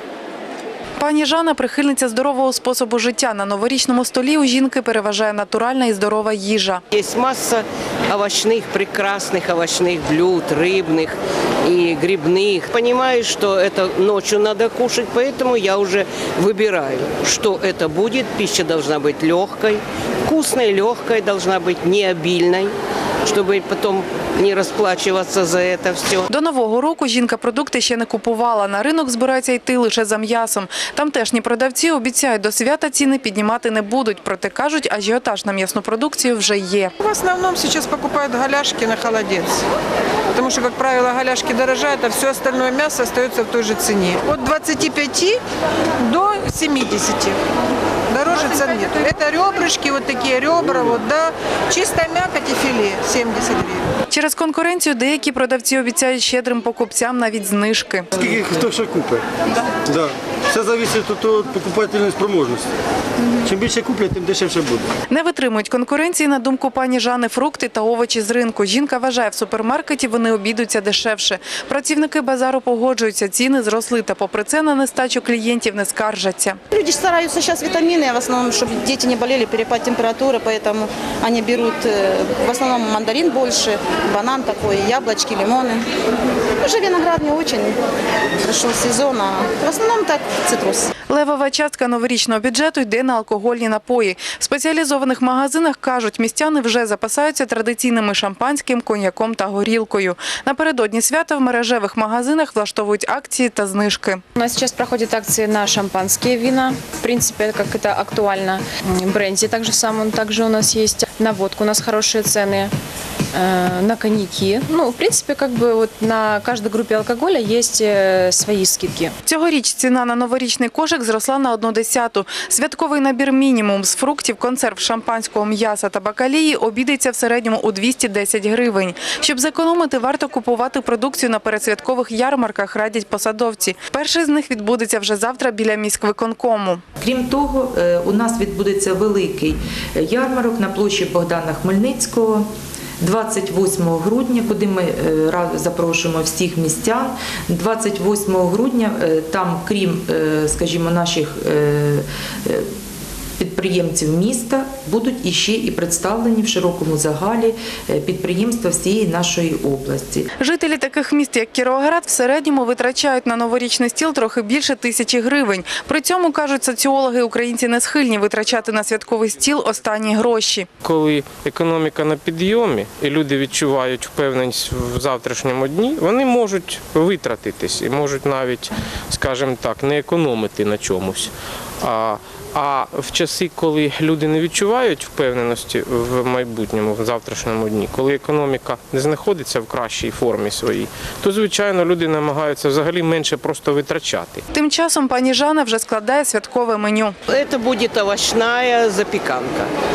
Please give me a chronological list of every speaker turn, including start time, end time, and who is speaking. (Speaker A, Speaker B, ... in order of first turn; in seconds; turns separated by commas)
Speaker A: 1.0-6.8, Speaker B: 6.9-22.7, Speaker B: 23.2-26.2, Speaker A: 26.3-36.9, Speaker C: 37.0-39.6, Speaker C: 40.3-45.4, Speaker C: 46.0-47.4, Speaker C: 48.1-53.9, Speaker A: 54.1-58.1, Speaker D: 58.2-59.2, Speaker D: 59.9-62.7, Speaker D: 63.4-64.9, Speaker A: 65.1-76.6, Speaker E: 76.7-85.9, Speaker E: 86.6-87.8, Speaker E: 88.4-90.9, Speaker A: 91.1-104.2, Speaker F: 104.4-112.7, Speaker F: 113.3-119.1, Speaker A: 119.2-136.8, Speaker G: 137.0-142.5, Speaker G: 143.0-152.7, Speaker G: 153.4-160.3, Speaker A: 160.4-170.7, Speaker H: 170.8-194.4, Speaker A: 194.5-197.2, Speaker B: 197.3-199.7